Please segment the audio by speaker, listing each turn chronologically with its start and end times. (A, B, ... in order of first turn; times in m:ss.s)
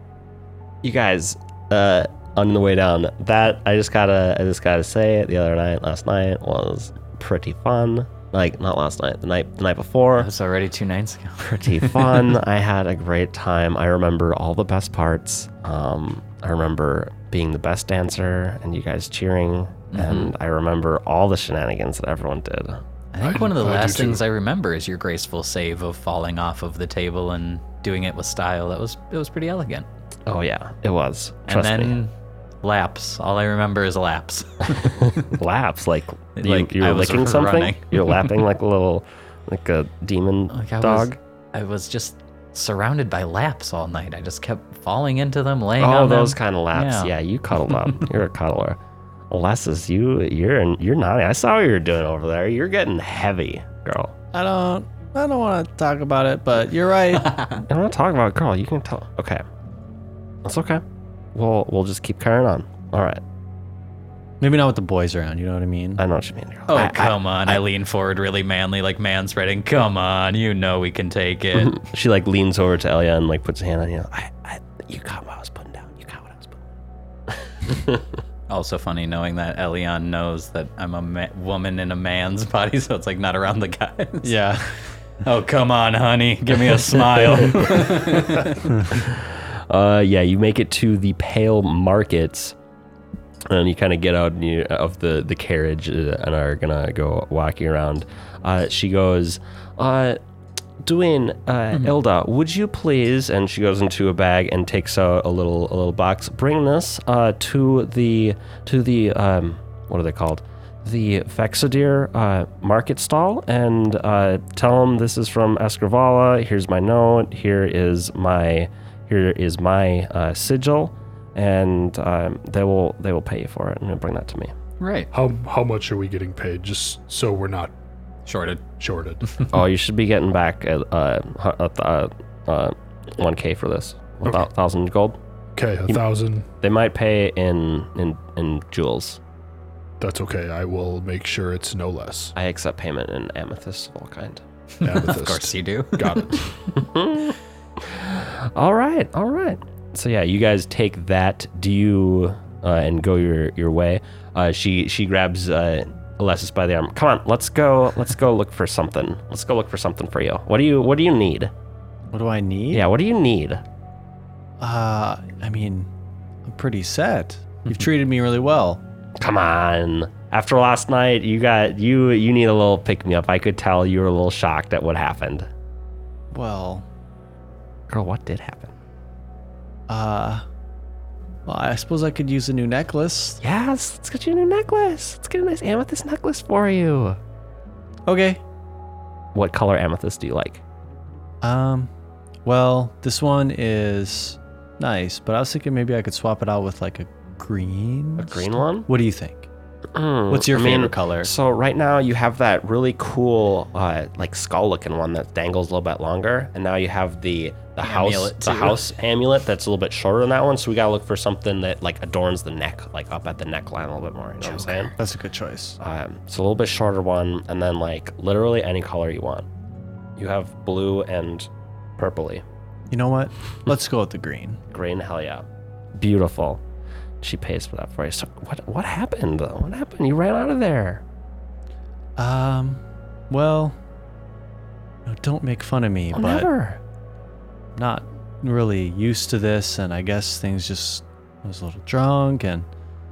0:00.8-0:10.3 A
0:10.2-0:12.4 B
0:11.4-0:22.8 A
0:19.9-0:20.3 B
0:23.1-0:29.9 B
0:23.2-0:24.2 C
0:30.2-0:32.0 A
0:31.5-0:32.1 B
0:32.6-0:35.3 B
0:34.8-0:41.2 A
0:36.4-0:38.4 B
0:40.5-0:47.1 B
0:45.8-0:48.8 A
0:49.3-0:54.1 A
0:54.3-0:57.4 D
0:57.3-0:57.6 B
0:57.6-0:59.4 A
1:00.4-1:00.8 A
1:01.3-1:03.2 A
1:04.4-1:06.0 D
1:06.0-1:07.6 A
1:06.7-1:11.8 B
1:11.5-1:16.6 A
1:17.3-1:18.0 A
1:18.5-1:24.4 B
1:24.2-1:24.7 D
1:25.2-1:28.8 B
1:28.9-1:32.5 A
1:33.5-1:40.2 A
1:40.8-2:04.5 A
2:04.8-2:05.1 B
2:05.1-2:07.7 C
2:08.2-2:08.6 B
2:08.8-2:09.2 C
2:09.5-2:15.2 A
2:15.5-2:16.5 C
2:16.6-2:19.2 A
2:20.0-2:22.3 C
2:22.4-2:24.4 A
2:24.8-2:26.4 B
2:24.8-2:26.5 C
2:26.7-2:41.5 A
2:42.1-2:42.8 D
2:42.7-2:43.6 A
2:44.6-2:45.9 D
2:46.4-2:48.8 D
2:49.2-2:55.5 A
2:56.3-2:56.8 D
2:57.9-2:58.7 A
2:59.9-3:00.4 D
3:01.4-3:03.4 D
3:03.4-3:07.2 A
3:08.1-3:08.4 D
3:09.3-3:10.6 A
3:11.4-3:11.9 D
3:12.4-3:19.5 D
3:18.2-3:18.9 A
3:19.9-3:34.9 A
3:20.3-3:21.3 D
3:27.8-3:28.8 B
3:34.5-3:35.8 D
3:35.8-3:39.4 A
3:40.2-3:42.4 A
3:42.9-3:44.6 D
3:44.7-3:46.6 A
3:47.2-3:51.0 A
3:52.2-3:53.7 D
3:55.0-3:56.5 D
3:56.1-3:56.8 A
3:57.8-4:02.7 D